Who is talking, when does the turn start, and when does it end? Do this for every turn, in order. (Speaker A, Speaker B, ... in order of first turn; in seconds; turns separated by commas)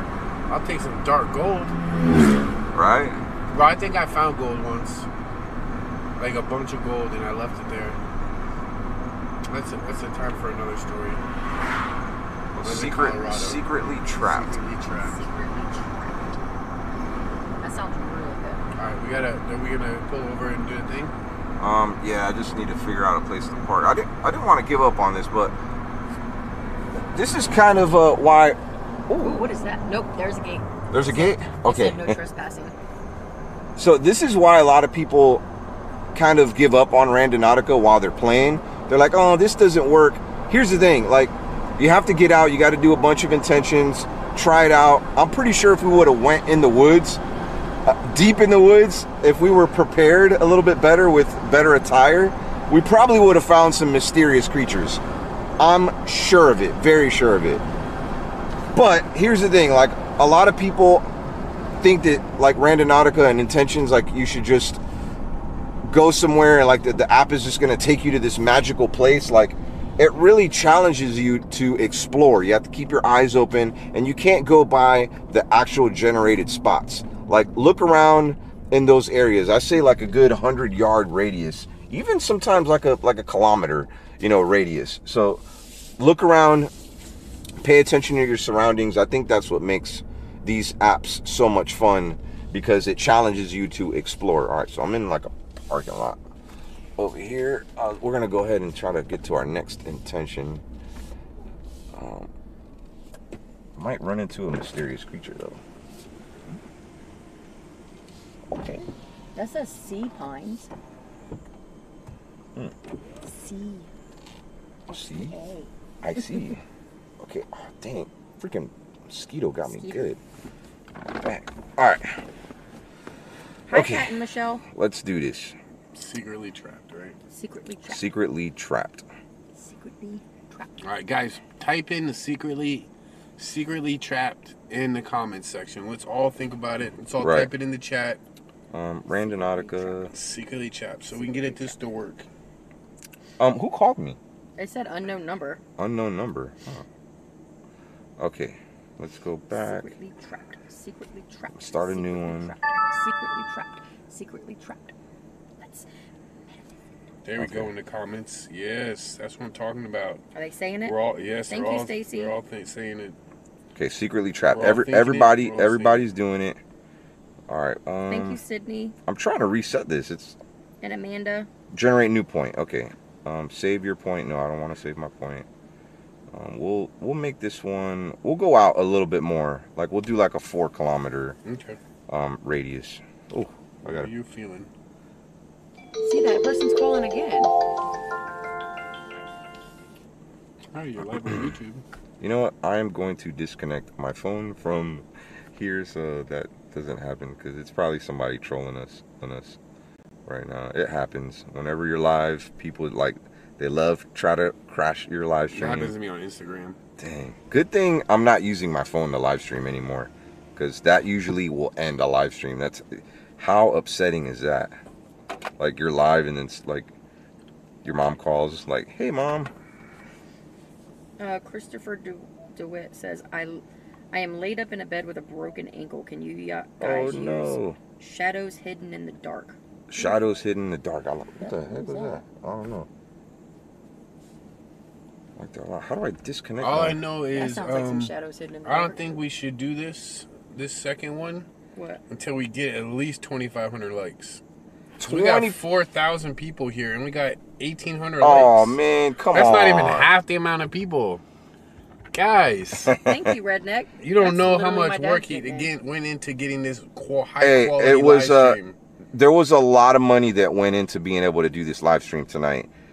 Speaker A: 0.5-2.0, Speaker B: 2.7-3.2, Speaker A: 3.5-5.1, Speaker A: 6.2-8.0, Speaker A: 9.5-11.3, Speaker B: 12.5-14.6, Speaker A: 12.6-15.3, Speaker C: 15.0-16.4, Speaker C: 17.6-18.6, Speaker A: 18.7-21.1, Speaker B: 21.6-25.5, Speaker B: 27.1-29.5, Speaker C: 29.2-32.7, Speaker B: 30.9-32.2, Speaker B: 33.8-35.4, Speaker B: 36.1-47.2, Speaker B: 47.8-55.0, Speaker B: 55.6-57.6, Speaker B: 58.7-61.1, Speaker B: 61.8-64.8, Speaker B: 65.8-85.4, Speaker B: 86.0-86.7, Speaker B: 87.6-96.2, Speaker B: 97.0-100.6, Speaker B: 101.9-102.3, Speaker B: 103.8-105.6, Speaker B: 108.5-108.8, Speaker C: 109.3-110.7, Speaker C: 113.2-113.9, Speaker B: 114.9-115.3, Speaker C: 115.1-115.7, Speaker B: 116.0-116.6, Speaker B: 117.2-120.2, Speaker C: 119.7-120.1, Speaker B: 121.2-122.2, Speaker C: 123.7-124.6, Speaker B: 123.7-124.1, Speaker B: 124.6-125.5, Speaker A: 125.9-127.2, Speaker C: 127.3-128.1, Speaker B: 127.9-129.0, Speaker C: 129.5-130.8, Speaker A: 130.8-138.2, Speaker B: 137.2-137.5, Speaker B: 138.7-140.1, Speaker C: 139.1-140.1, Speaker A: 140.1-142.3, Speaker C: 141.1-141.8, Speaker B: 143.4-144.2, Speaker C: 144.6-145.6, Speaker B: 145.8-146.8, Speaker B: 148.2-149.9, Speaker C: 149.5-154.9, Speaker B: 151.6-152.5, Speaker C: 155.6-155.9, Speaker A: 157.2-160.2, Speaker B: 157.4-157.7, Speaker C: 160.3-162.4, Speaker A: 160.8-163.2, Speaker B: 163.7-166.6, Speaker A: 164.5-166.0, Speaker B: 167.5-168.4, Speaker C: 168.1-168.9, Speaker B: 169.1-170.4, Speaker C: 170.8-171.5, Speaker B: 171.7-175.5, Speaker B: 176.3-181.4, Speaker A: 181.4-181.8, Speaker B: 182.1-184.1, Speaker A: 183.8-184.7, Speaker C: 186.0-187.5, Speaker A: 190.7-191.8, Speaker B: 191.3-191.5, Speaker B: 192.2-199.6, Speaker B: 200.2-205.9, Speaker A: 205.5-206.8, Speaker B: 207.0-214.8, Speaker B: 215.6-216.9, Speaker B: 217.8-219.5, Speaker C: 221.2-230.1, Speaker B: 226.8-227.8, Speaker B: 229.9-232.9, Speaker C: 231.4-232.2, Speaker B: 235.4-237.0, Speaker A: 236.6-238.1, Speaker C: 237.3-239.1, Speaker A: 238.6-241.5, Speaker C: 241.7-242.0, Speaker A: 242.1-244.4, Speaker B: 245.0-245.6, Speaker A: 245.0-248.8, Speaker B: 248.2-250.1, Speaker A: 249.3-251.2, Speaker A: 252.1-252.9, Speaker B: 252.8-253.3, Speaker C: 253.0-255.7, Speaker A: 254.0-258.8, Speaker B: 257.4-258.6, Speaker B: 259.1-262.7